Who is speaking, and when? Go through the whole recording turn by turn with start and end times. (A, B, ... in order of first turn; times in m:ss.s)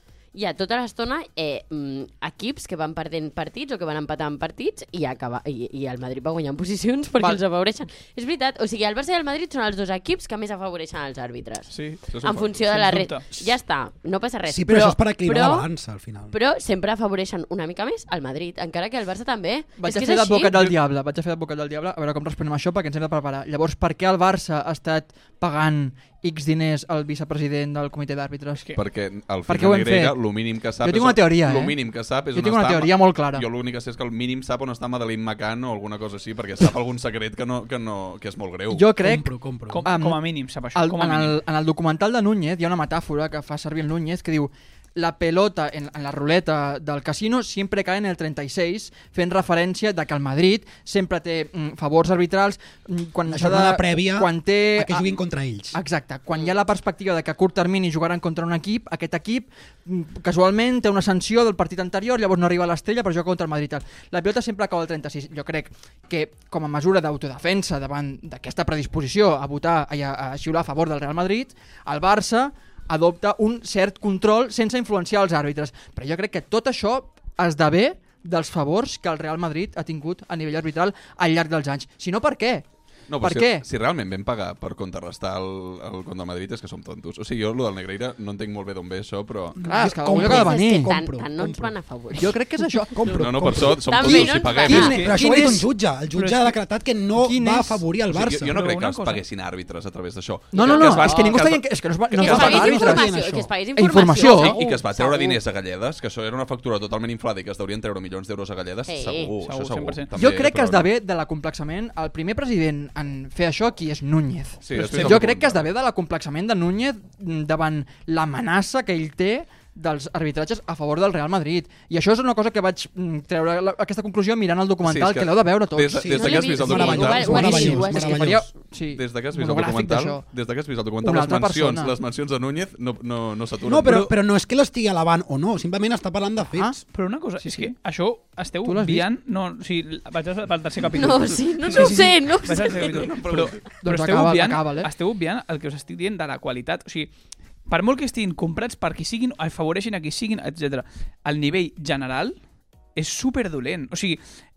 0:00.3-0:15.7 A
0:11.7-0:13.5 B
0:12.1-0:12.6 C
0:14.5-0:16.3 D
0:16.3-0:20.5 A
0:19.8-0:28.6 E
0:28.8-0:39.0 C
0:29.5-0:30.2 E
0:30.8-0:33.4 E
0:38.7-0:39.3 E
0:39.0-0:39.8 D
0:39.7-0:41.4 B
0:39.8-0:40.2 E
0:40.7-0:55.0 E
0:53.3-0:55.8 D
0:55.7-1:22.7 E
1:23.1-1:29.6 C
1:23.2-1:23.7 E
1:29.6-1:31.8 D
1:29.6-1:31.0 E
1:30.1-1:32.4 A
1:32.2-1:33.0 E
1:32.9-1:34.3 D
1:33.0-1:35.0 A
1:33.1-1:35.1 C
1:34.6-1:35.7 E
1:34.7-1:35.1 B
1:34.9-1:38.6 D
1:36.1-1:36.6 B
1:37.2-1:37.8 E
1:38.1-1:42.7 C
1:38.5-1:39.2 B
1:40.5-1:43.1 E
1:40.6-1:41.4 A
1:42.1-1:45.4 A
1:42.3-1:43.5 D
1:43.8-1:44.6 E
1:44.2-1:50.9 C
1:48.9-1:49.4 A
1:49.4-1:50.1 B
1:50.2-2:10.3 E
1:54.6-1:55.7 C
1:54.8-1:55.2 B
2:04.8-2:07.6 C
2:06.0-2:08.5 D
2:06.2-2:08.3 A
2:09.0-2:14.0 C
2:11.0-2:12.0 E
2:13.6-2:16.8 D
2:16.9-2:27.1 B
2:17.4-2:17.7 E
2:18.6-2:19.1 E
2:20.9-2:23.1 A
2:21.7-2:22.0 C
2:22.8-2:23.6 C
2:23.8-2:24.9 E
2:27.7-2:32.4 B
2:33.0-2:34.2 B